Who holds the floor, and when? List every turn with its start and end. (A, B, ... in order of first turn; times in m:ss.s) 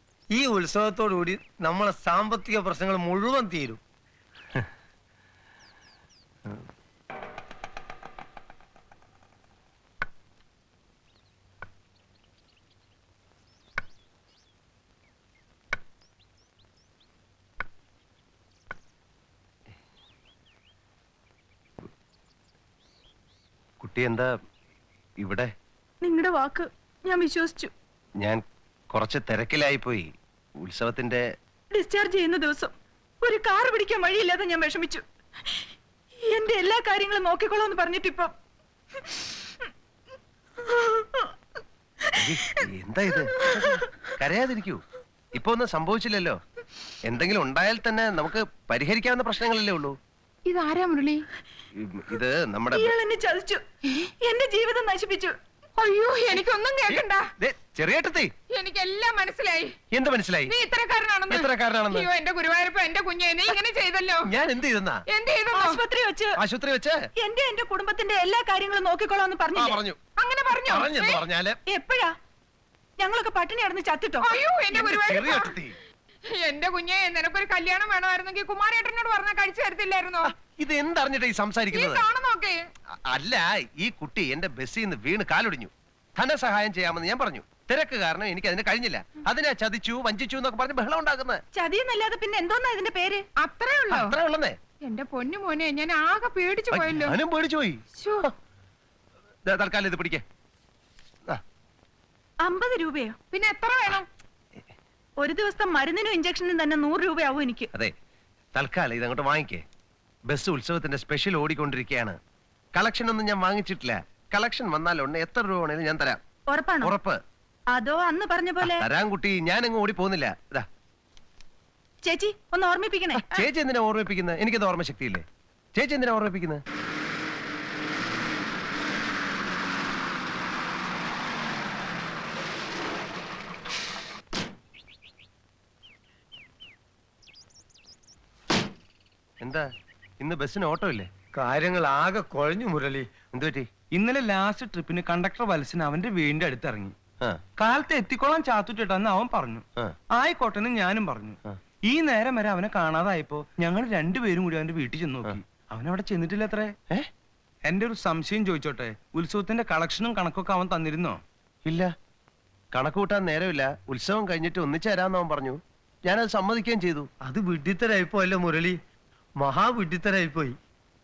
0:00.3-0:03.8 A
0:23.8-0:24.3 B
0:25.2-0:25.5 B
0:26.0-0:27.7 C
0:28.2-0:30.1 B
0:30.6-0:31.2 B
0:31.7-0:35.0 C
0:36.3-0:38.3 C
0:42.2-0:44.8 B
0:45.3-0:46.4 B
0:47.0-0:50.0 B
0:50.5-0:51.2 D
0:51.8-0:52.9 B
0:52.8-0:53.6 C
0:54.2-0:55.4 C
0:55.8-0:57.3 D
0:56.9-0:58.3 B
0:58.5-0:59.8 D
0:59.9-1:00.6 B
1:00.5-1:04.3 D
1:01.3-1:02.1 B
1:04.2-1:05.0 B
1:05.1-1:05.8 D
1:05.5-1:06.3 C
1:06.4-1:07.0 B
1:07.2-1:09.8 C
1:09.6-1:10.0 B
1:10.2-1:11.2 D
1:10.5-1:11.6 B
1:11.7-1:12.1 C
1:13.0-1:14.4 C
1:14.2-1:15.6 D
1:14.7-1:15.8 B
1:16.3-1:20.3 D
1:20.2-1:22.1 B
1:21.7-1:22.7 D
1:23.1-1:31.4 B
1:31.5-1:33.2 C
1:33.4-1:34.2 D
1:33.9-1:34.6 B
1:34.8-1:37.2 D
1:36.7-1:38.3 B
1:38.0-1:38.3 D
1:39.5-1:40.2 B
1:42.4-1:43.2 C
1:43.3-1:44.0 D
1:45.2-1:47.7 C
1:48.6-1:49.6 B
1:50.3-1:52.2 B
1:52.8-1:56.2 B
1:56.5-1:57.0 C
1:56.8-1:57.2 B
1:57.7-1:58.8 C
1:58.6-2:00.7 B
2:02.0-2:03.4 C
2:03.2-2:05.2 B
2:05.8-2:06.6 B
2:19.4-2:19.7 B
2:20.2-2:21.1 B
2:21.4-2:23.1 A
2:23.3-2:23.7 B
2:23.9-2:26.9 E
2:27.6-2:36.8 E
2:37.6-2:41.2 E
2:42.7-2:47.1 B
2:47.2-2:48.8 A
2:49.4-2:50.6 A